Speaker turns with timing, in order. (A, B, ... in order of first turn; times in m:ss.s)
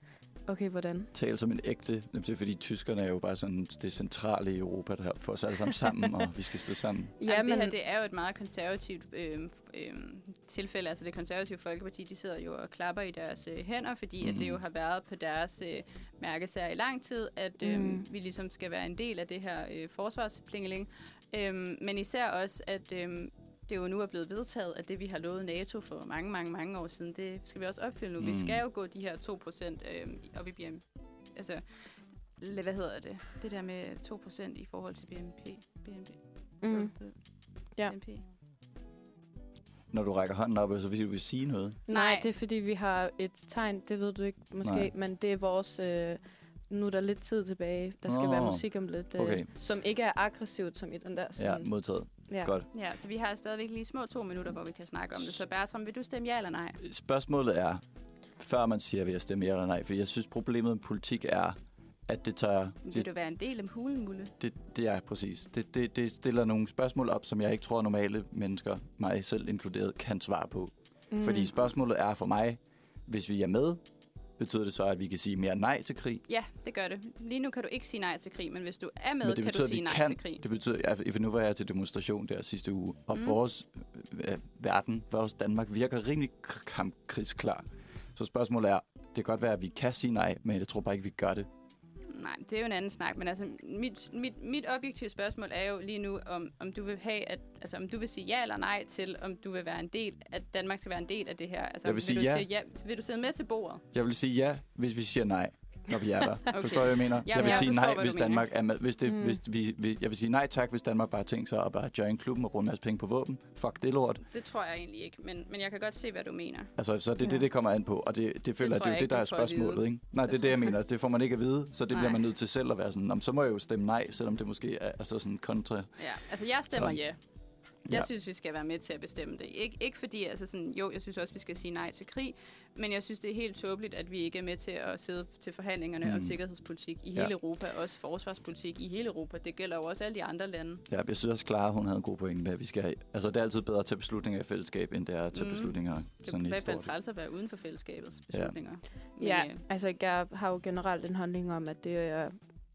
0:00.5-0:01.1 A
0:01.1-0:07.1 B
0:07.2-0:07.7 A
0:07.2-0:31.8 C
0:14.2-0:14.6 B
0:17.6-0:18.0 A
0:28.2-0:28.6 B
0:32.4-0:37.1 C
0:36.6-0:36.9 A
0:37.8-0:38.2 C
0:39.9-0:41.8 B
0:41.9-0:51.7 A
0:41.9-0:42.2 C
0:44.6-0:44.9 B
0:48.0-0:49.5 B
0:51.4-0:52.7 B
0:52.7-0:56.8 C
0:56.8-0:57.8 B
0:58.4-1:03.1 B
1:02.8-1:04.3 C
1:04.4-1:13.8 B
1:11.1-1:11.5 A
1:14.4-1:16.2 B
1:16.3-1:20.4 C
1:19.2-1:27.6 B
1:28.1-1:31.5 B
1:32.1-1:43.8 C
1:41.8-1:42.4 B
1:43.9-1:54.2 B
1:46.5-1:48.5 C
1:49.0-1:49.4 A
1:54.3-1:56.7 C
1:56.8-2:05.9 B
1:58.6-2:00.7 C
2:01.9-2:02.2 C
2:06.0-2:07.2 C
2:06.7-2:07.0 B
2:07.9-2:20.8 C
2:16.0-2:16.4 B
2:20.9-2:26.9 B
2:25.3-2:29.6 C
2:29.2-2:32.4 A